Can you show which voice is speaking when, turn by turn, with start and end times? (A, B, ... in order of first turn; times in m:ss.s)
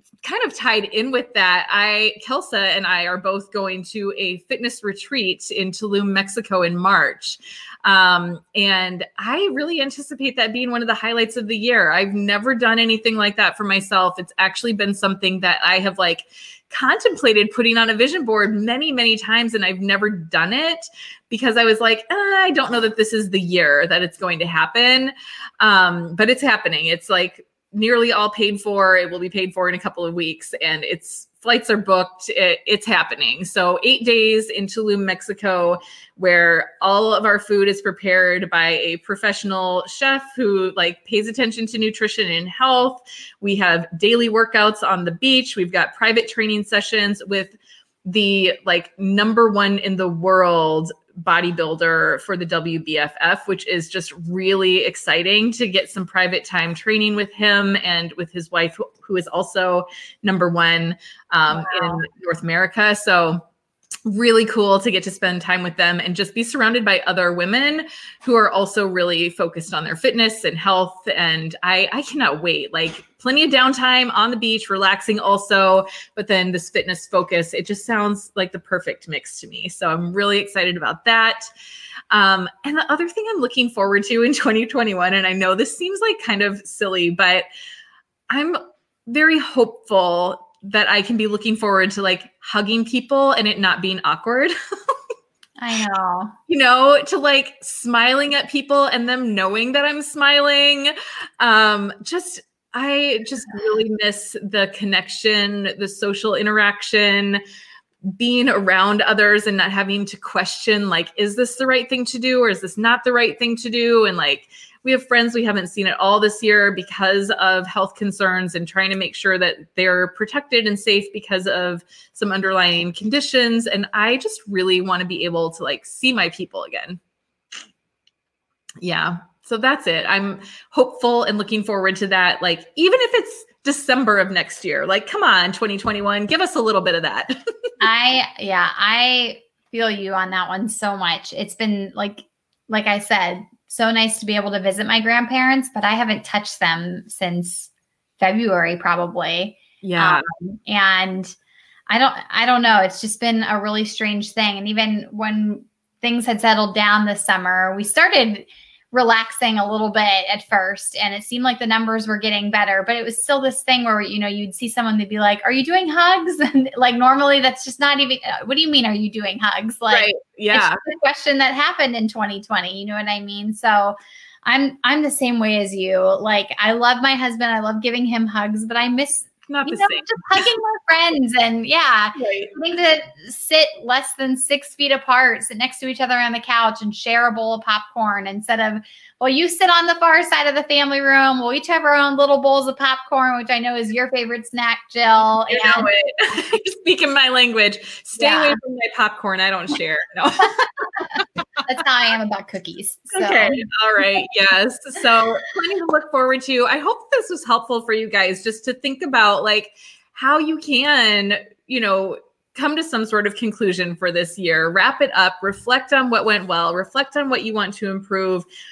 0:00.2-1:03.4 A
1:01.5-1:02.0 B
1:04.1-1:21.5 A
1:22.1-1:27.5 A
1:28.3-1:34.5 A
1:35.6-1:36.4 B
1:36.5-1:47.4 A
1:48.2-2:07.0 A
2:08.8-2:17.4 A
2:17.8-2:31.3 B
2:29.8-2:30.2 A
2:31.9-3:15.9 B
2:49.9-2:50.8 A
2:59.5-3:00.4 A
3:02.2-3:02.5 A
3:15.5-3:21.2 A
3:18.2-3:18.6 B
3:21.6-3:23.6 B
3:23.1-3:38.5 A